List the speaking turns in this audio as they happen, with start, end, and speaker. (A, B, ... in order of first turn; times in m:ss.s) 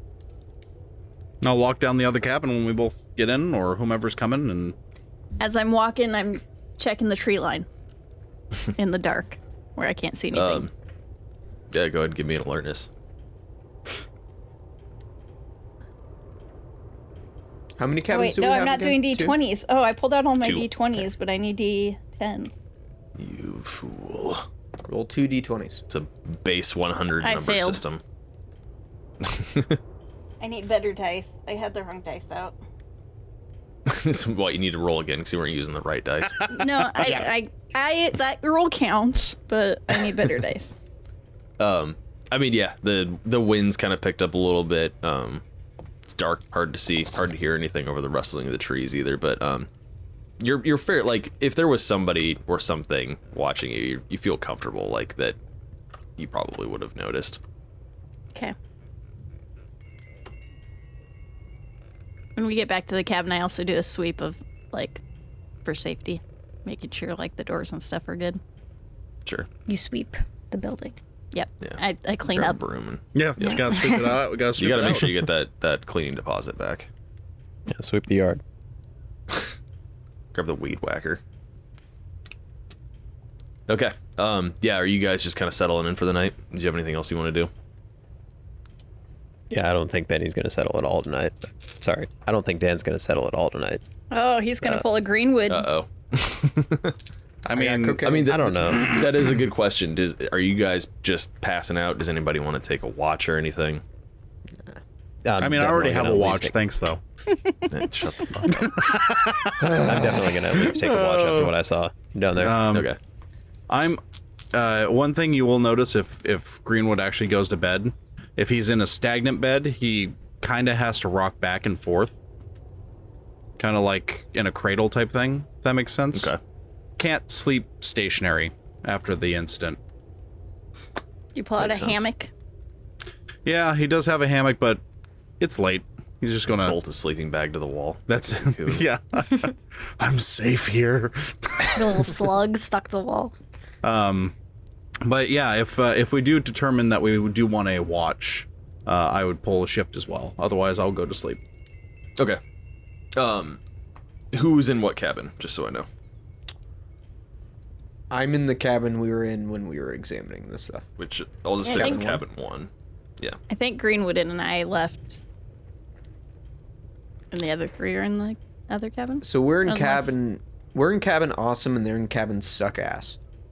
0:01.4-0:04.8 A
0:05.4-0:07.7 B
0:08.8-0:10.7 B
0:10.3-0:10.7 C
0:11.7-0:12.9 C
0:17.8-0:19.4 D
0:18.1-0:22.6 B
0:20.4-0:21.0 C
0:23.2-0:24.5 C
0:24.9-0:25.8 D
0:25.9-0:28.0 C
0:27.2-0:27.8 B
0:29.2-0:29.8 C
0:30.4-0:32.5 B
0:33.9-0:36.4 C
0:36.3-0:37.2 A
0:36.5-0:40.8 B
0:41.6-0:45.4 C
0:46.1-0:49.7 C
0:50.4-0:55.4 C
0:56.2-0:57.4 C
1:02.4-1:05.0 B
1:05.6-1:08.4 B
1:09.7-1:11.0 E
1:11.3-1:12.6 B
1:11.6-1:13.6 C
1:13.1-1:15.2 A
1:13.4-1:14.2 E
1:14.6-1:16.9 C
1:17.7-1:18.4 F
1:20.3-1:21.2 C
1:23.7-1:27.5 C
1:29.5-1:33.8 F
1:34.1-1:35.7 B
1:35.5-1:37.0 C
1:37.4-1:38.0 A
1:37.5-1:38.4 D
1:38.0-1:43.8 C
1:38.3-1:38.9 F
1:45.3-1:46.6 F
1:45.4-1:47.0 A
1:47.7-1:49.0 C
1:48.5-1:49.8 A
1:49.6-1:51.5 C
1:49.8-1:52.6 F
1:52.4-1:52.9 A
1:52.7-1:53.0 C
1:53.7-1:54.0 A
1:54.5-2:02.2 A
2:03.6-2:06.3 A
2:06.1-2:06.4 C
2:07.0-2:09.8 A
2:11.4-2:12.3 B
2:11.6-2:12.1 C
2:13.4-2:14.8 A
2:15.4-2:16.8 A
2:16.5-2:18.9 C
2:18.1-2:22.2 A
2:21.8-2:23.3 E
2:23.8-2:24.3 A
2:25.0-2:31.4 A
2:33.2-2:33.6 C
2:34.3-2:35.9 C
2:38.1-2:40.9 D
2:41.0-2:43.4 C
2:41.6-2:42.0 B
2:41.7-2:42.2 D
2:43.5-2:45.2 B
2:47.3-2:50.1 B
2:49.2-2:53.2 D